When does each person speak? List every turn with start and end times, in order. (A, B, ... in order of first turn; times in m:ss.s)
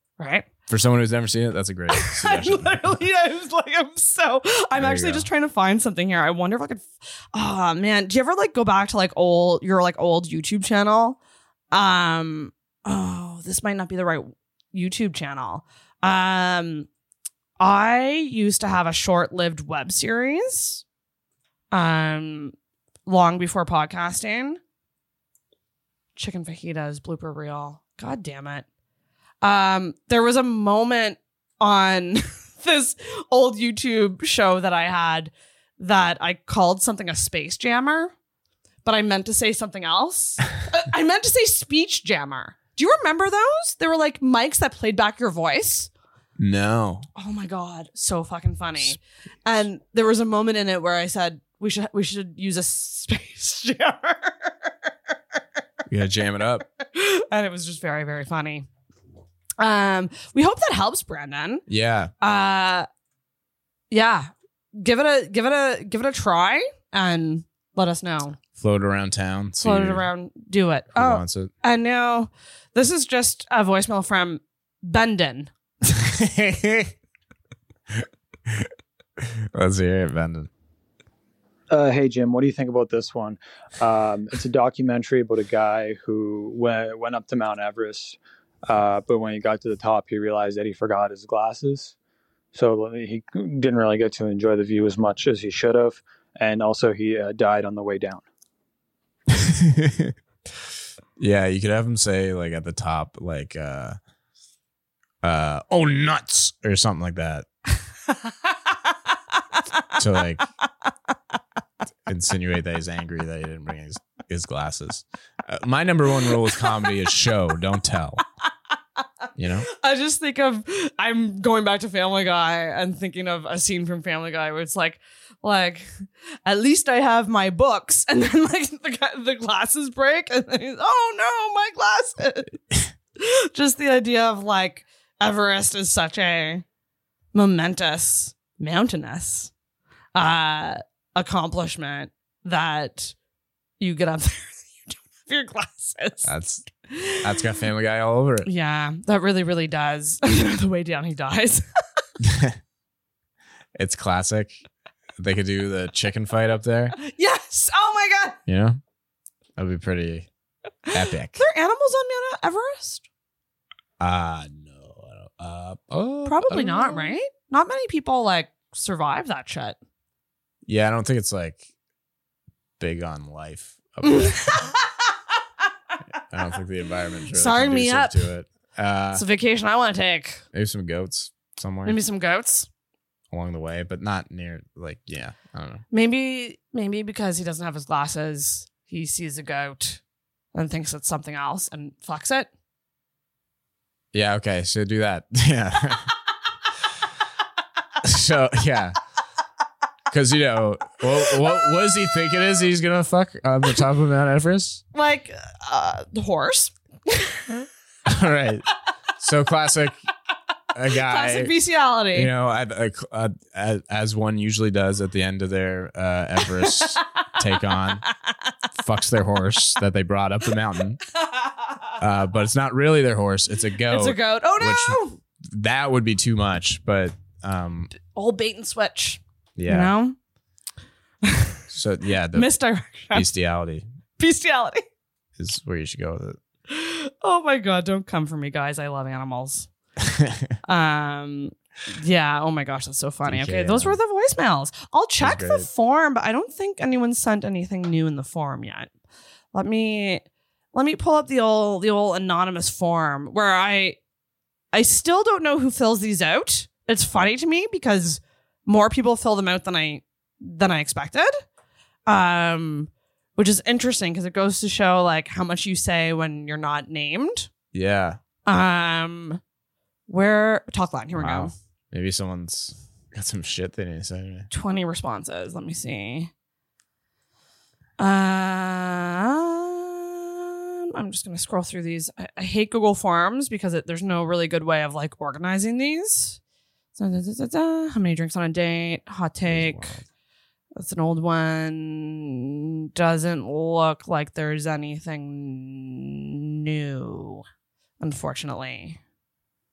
0:00.2-0:00.5 A
0:00.7-0:02.8 B
0:01.9-0:11.2 A
0:04.8-0:05.2 B
0:11.7-0:16.9 A
0:17.6-0:20.8 A
0:21.7-0:22.5 A
0:23.0-0:24.6 A
0:26.2-0:28.6 A
0:29.4-0:38.1 A
0:38.8-0:45.9 A
0:46.4-0:47.1 B
0:47.2-0:54.7 A
0:55.9-0:56.6 B
0:56.9-0:58.7 A
0:59.6-1:01.6 A
1:01.7-1:02.1 B
1:02.2-1:02.9 A
1:03.9-1:08.4 A
1:08.6-1:10.0 B
1:09.6-1:15.5 A
1:10.9-1:11.5 B
1:15.9-1:16.9 B
1:17.9-1:18.7 B
1:19.2-1:20.5 B
1:21.7-1:31.9 C
1:32.5-1:38.2 C
1:39.3-1:40.1 B
1:41.2-1:44.0 B
1:45.2-1:47.5 B
1:50.0-1:50.4 B
1:52.0-1:58.2 B
1:59.4-1:59.7 B
1:59.7-2:12.5 A
2:13.2-2:16.6 A
2:17.3-2:19.5 A
2:20.1-2:23.1 A
2:23.8-2:26.3 A
2:26.2-2:26.6 B
2:26.9-2:27.4 A
2:27.2-2:28.5 B
2:28.4-2:31.6 A
2:32.2-2:32.6 B
2:33.8-2:34.6 B
2:35.2-2:37.0 B
2:37.0-2:38.4 A
2:38.5-2:38.8 B
2:39.6-2:40.3 B
2:40.9-2:43.0 A
2:40.9-2:41.4 B
2:44.0-2:47.1 B
2:46.2-2:49.8 A
2:50.6-2:51.6 B
2:52.8-2:54.7 B
2:54.0-2:54.9 A
2:56.2-2:59.2 B
2:57.3-2:58.3 A
2:59.1-3:00.4 A
3:00.5-3:02.0 B
3:01.8-3:02.7 A
3:03.3-3:05.8 B
3:05.9-3:10.0 A
3:10.5-3:12.5 A
3:14.1-3:16.1 B
3:18.0-3:19.0 B
3:20.1-3:24.8 B
3:24.9-3:27.7 A
3:28.1-3:28.6 B
3:29.2-3:30.0 B
3:30.7-3:31.5 B
3:31.0-3:32.3 A
3:32.1-3:38.0 B
3:36.6-3:37.0 A
3:38.0-3:38.5 A
3:38.7-3:41.0 B
3:42.0-3:47.9 B
3:43.8-3:45.2 A
3:47.9-3:50.2 A
3:49.6-3:49.9 B
3:51.2-3:51.6 A
3:51.7-3:52.5 B
3:52.3-3:53.3 A
3:53.1-3:53.8 B
3:54.2-3:54.8 A
3:55.4-3:56.4 B
3:56.7-3:59.7 A
4:00.0-4:00.5 B
4:00.6-4:08.9 A
4:03.2-4:04.0 B
4:05.2-4:05.7 B
4:09.5-4:14.0 A
4:14.7-4:21.3 A
4:22.1-4:27.5 A
4:27.7-4:28.2 B
4:28.4-4:29.4 A
4:30.1-4:31.5 A
4:31.1-4:34.5 B
4:34.5-4:36.3 A
4:38.0-4:46.4 A
4:47.0-4:50.0 A
4:49.5-4:50.0 B
4:50.7-4:57.4 A
4:58.0-4:59.0 A